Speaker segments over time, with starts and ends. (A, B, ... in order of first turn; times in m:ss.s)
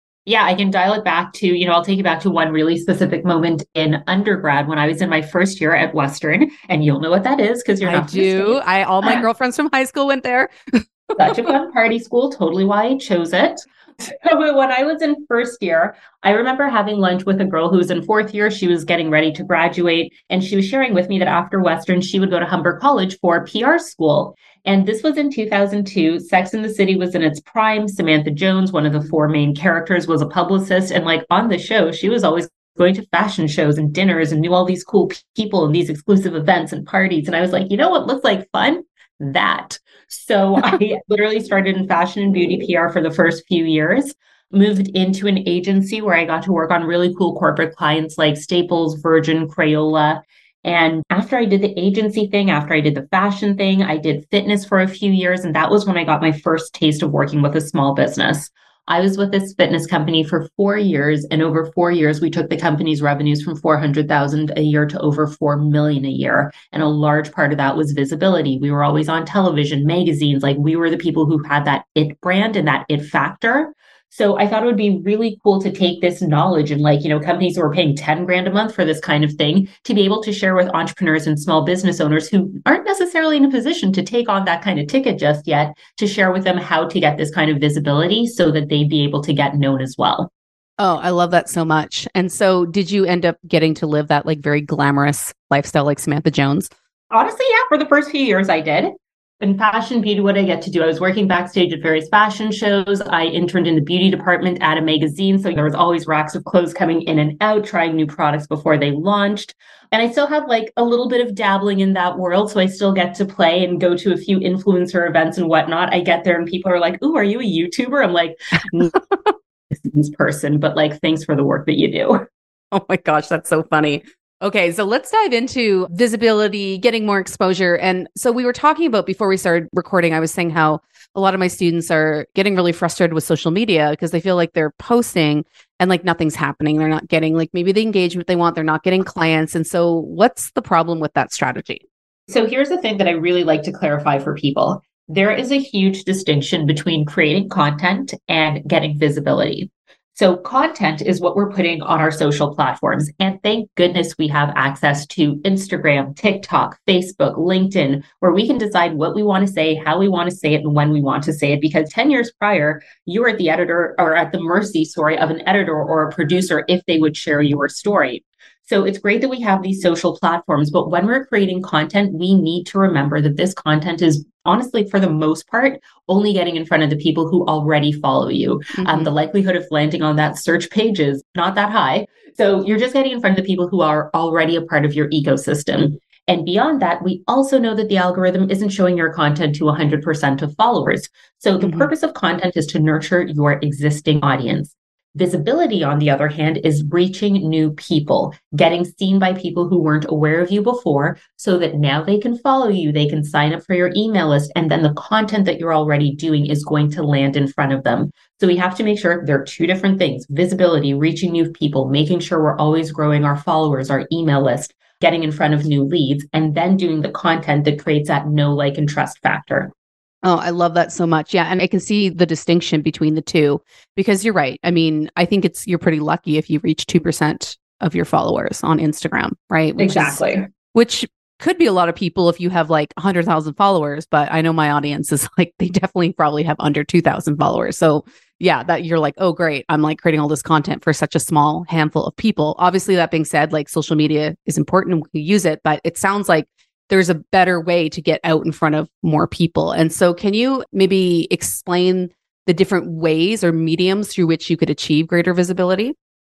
0:00.2-0:09.2 A
0:07.8-0:11.4 B
0:11.2-1:30.3 A
1:30.8-1:36.7 B
1:37.1-1:58.9 A
1:59.7-2:02.3 A
2:02.7-2:21.8 B
2:22.3-3:39.7 A
2:58.7-2:59.1 B
3:11.6-3:11.9 B
3:40.2-3:50.2 B
3:49.8-3:50.5 A
3:50.7-4:15.9 B